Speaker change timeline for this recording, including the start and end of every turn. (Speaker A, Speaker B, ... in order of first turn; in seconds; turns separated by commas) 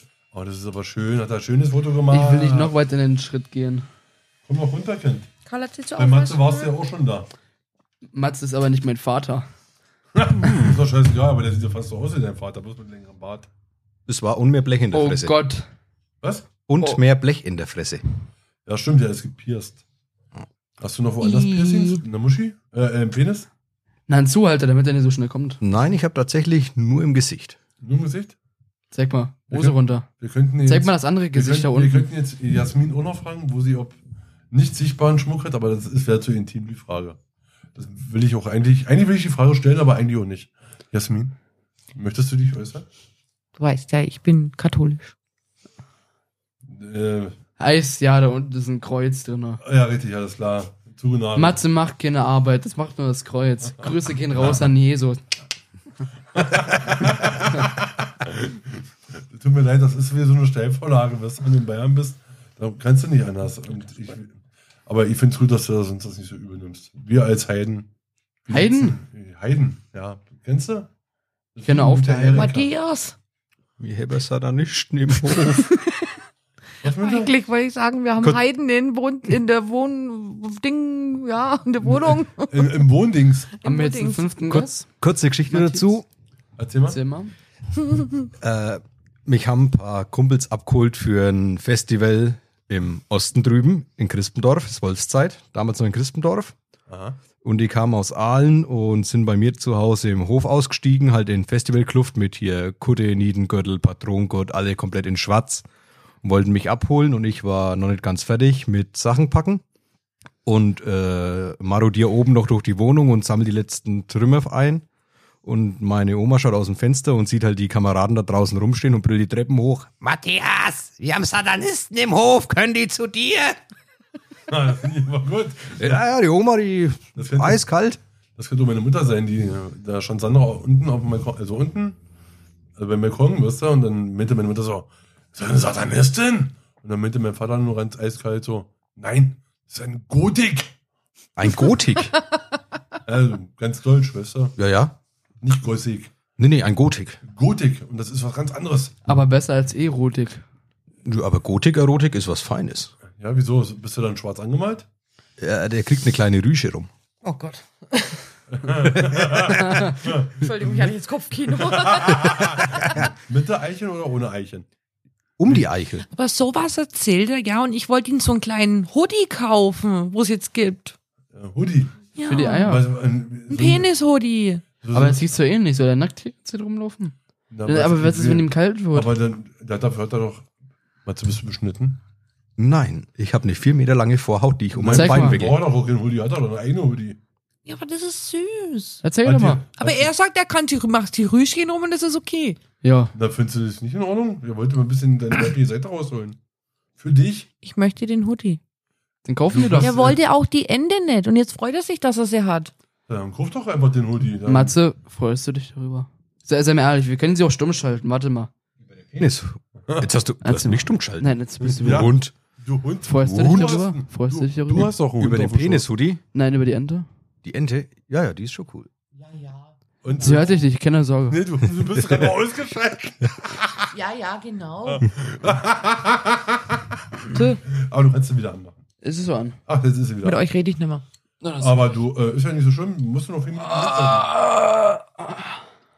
Speaker A: 0.3-2.7, Speaker B: 2.1-3.9, Speaker A: 4.5-5.3, Speaker C: 5.5-6.7, Speaker A: 6.0-7.3, Speaker B: 8.1-9.5, Speaker A: 10.2-13.5, Speaker D: 10.4-10.8, Speaker D: 14.1-15.4, Speaker B: 14.9-15.7, Speaker A: 16.2-16.5, Speaker D: 16.7-18.0, Speaker A: 18.7-19.8, Speaker A: 20.8-23.5, Speaker C: 21.2-22.0, Speaker B: 24.1-25.6, Speaker D: 25.6-27.6, Speaker A: 27.8-28.4, Speaker B: 28.9-30.1, Speaker A: 29.5-34.0, Speaker B: 30.6-32.1, Speaker A: 34.5-37.2, Speaker A: 37.8-41.4, Speaker A: 42.0-42.9, Speaker C: 43.6-45.1, Speaker A: 46.7-47.4, Speaker B: 47.6-49.6, Speaker A: 49.6-51.6, Speaker B: 51.4-55.2, Speaker A: 56.3-67.9, Speaker A: 68.5-70.9, Speaker B: 68.5-69.0, Speaker A: 71.5-72.7, Speaker B: 71.6-72.5, Speaker C: 72.3-73.2, Speaker D: 73.8-75.7, Speaker C: 75.7-76.0, Speaker A: 76.8-77.3, Speaker C: 77.0-82.8, Speaker A: 82.5-83.5, Speaker C: 83.6-84.7, Speaker B: 83.6-84.9, Speaker D: 84.5-86.1, Speaker B: 85.5-85.9, Speaker A: 86.6-87.0, Speaker B: 86.9-87.3, Speaker D: 88.4-96.5, Speaker A: 96.9-97.2, Speaker D: 97.4-105.7, Speaker D: 106.2-109.6, Speaker D: 110.5-114.8, Speaker D: 115.4-123.6, Speaker A: 124.5-126.0, Speaker D: 125.8-128.0, Speaker A: 127.2-127.6, Speaker A: 128.4-132.0, Speaker A: 132.8-140.7, Speaker D: 141.4-142.2, Speaker A: 143.1-144.6, Speaker D: 144.6-145.0, Speaker A: 145.4-146.2, Speaker D: 146.4-147.2, Speaker A: 147.2-148.9, Speaker B: 149.1-150.4, Speaker D: 151.1-152.9, Speaker A: 153.1-154.9, Speaker D: 155.4-156.9, Speaker C: 157.2-158.2, Speaker A: 158.5-160.9, Speaker D: 159.1-159.4, Speaker C: 160.4-162.7, Speaker A: 161.5-164.7, Speaker D: 165.4-166.1, Speaker C: 166.1-170.9, Speaker A: 171.3-172.1, Speaker C: 172.2-172.8, Speaker B: 172.2-172.9, Speaker A: 172.6-173.9, Speaker C: 173.5-174.6, Speaker A: 174.8-175.3, Speaker B: 174.9-177.2, Speaker A: 177.5-180.5, Speaker B: 177.7-179.1, Speaker A: 181.1-182.0, Speaker D: 182.6-185.6, Speaker A: 184.8-187.2, Speaker B: 184.9-185.4, Speaker C: 187.7-189.0, Speaker B: 189.0-189.6, Speaker A: 189.2-190.1, Speaker C: 189.8-192.6, Speaker B: 192.8-193.1, Speaker A: 193.2-196.4, Speaker A: 197.0-197.5, Speaker C: 197.6-198.6, Speaker B: 199.2-200.1, Speaker A: 199.5-200.2, Speaker C: 199.8-202.7, Speaker A: 203.1-204.7, Speaker B: 204.4-208.5, Speaker D: 208.8-212.3, Speaker B: 210.4-212.1, Speaker A: 211.8-215.9, Speaker B: 213.1-214.9, Speaker D: 213.2-213.8, Speaker D: 215.2-216.2, Speaker B: 216.3-217.1, Speaker D: 217.4-218.9, Speaker C: 219.2-220.4, Speaker A: 220.0-220.7, Speaker B: 220.2-221.4, Speaker A: 221.3-223.8, Speaker C: 223.9-225.0, Speaker A: 224.9-228.8, Speaker C: 227.3-227.6, Speaker B: 229.0-229.6, Speaker A: 229.7-230.4, Speaker C: 230.2-231.0, Speaker B: 231.4-231.9, Speaker A: 231.6-234.3, Speaker B: 233.6-235.5